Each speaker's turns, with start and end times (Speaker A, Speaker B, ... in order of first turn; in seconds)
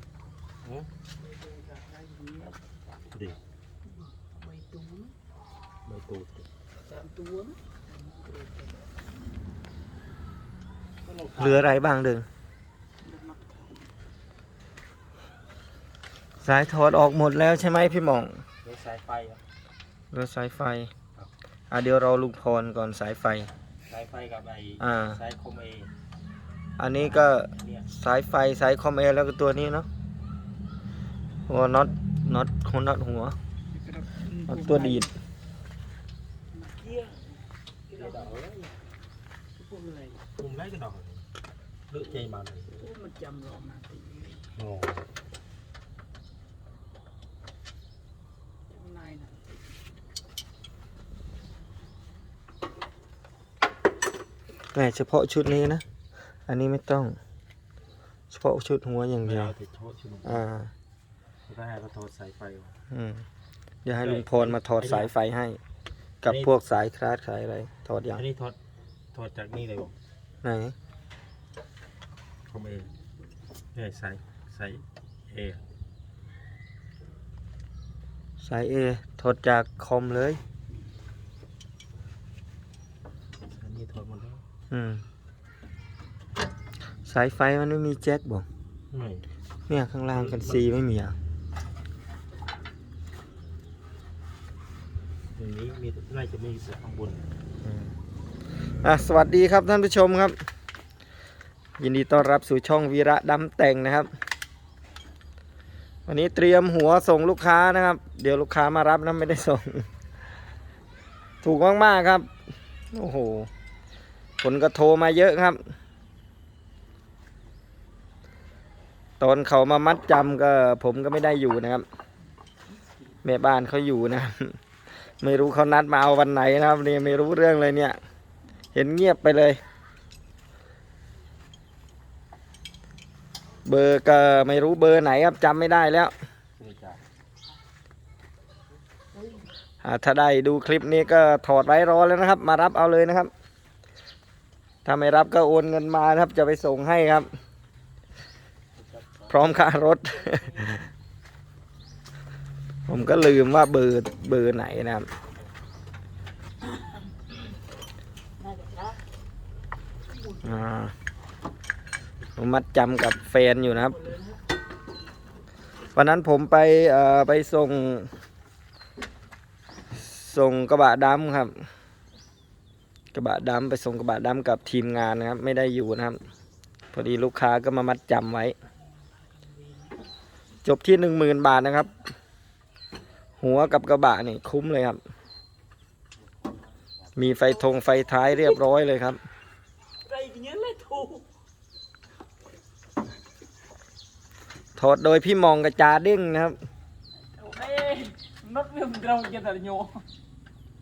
Speaker A: 0.6-0.9, 3.1-3.4, 5.8-6.4, 11.0-11.8, 18.6-19.4, 23.9-25.9, 26.9-27.9, 38.0-38.7, 40.4-41.2, 41.9-42.8, 44.5-45.0, 59.2-60.4, 61.5-62.7, 64.0-65.1, 66.2-66.5, 68.1-68.6, 69.1-69.9, 72.5-72.9, 73.7-75.6, 83.5-84.4, 88.9-89.3, 90.1-90.7, 95.3-97.2, 136.6-137.0, 148.7-149.5, 186.2-187.4
Speaker B: 1.2-2.6, 3.9-5.1, 6.9-8.8, 13.0-13.8, 33.7-35.1, 36.5-37.2, 37.9-38.3, 39.6-40.2, 42.7-44.5, 48.7-49.5, 150.2-150.8, 158.4-159.0, 160.1-160.6, 163.8-164.4, 179.3-179.9, 187.4-187.7, 190.1-191.2, 197.3-200.0
Speaker C: 11.4-12.2, 16.4-18.4, 20.1-20.9, 21.7-23.5, 24.8-25.2, 26.8-29.9, 31.5-33.4, 34.5-35.1, 54.7-55.8, 56.5-57.2, 58.3-59.5, 60.2-60.7, 62.9-63.2, 63.8-65.6, 66.2-68.2, 70.4-70.8, 78.4-80.4, 84.7-85.0, 87.0-88.5, 89.7-91.2, 97.6-97.9, 98.8-100.4, 101.8-104.1, 106.1-109.8, 111.4-112.3, 112.9-113.5, 114.4-115.6, 119.2-121.8, 123.2-124.6, 125.2-128.0, 128.7-129.6, 133.6-136.1, 139.8-143.3, 144.8-147.3, 149.3-150.8, 152.9-155.1, 160.4-160.9, 162.4-164.0, 165.9-168.1, 169.9-171.6, 173.1-176.2, 176.9-178.5, 180.6-181.9, 183.4-185.0, 187.2-189.2, 194.8-196.6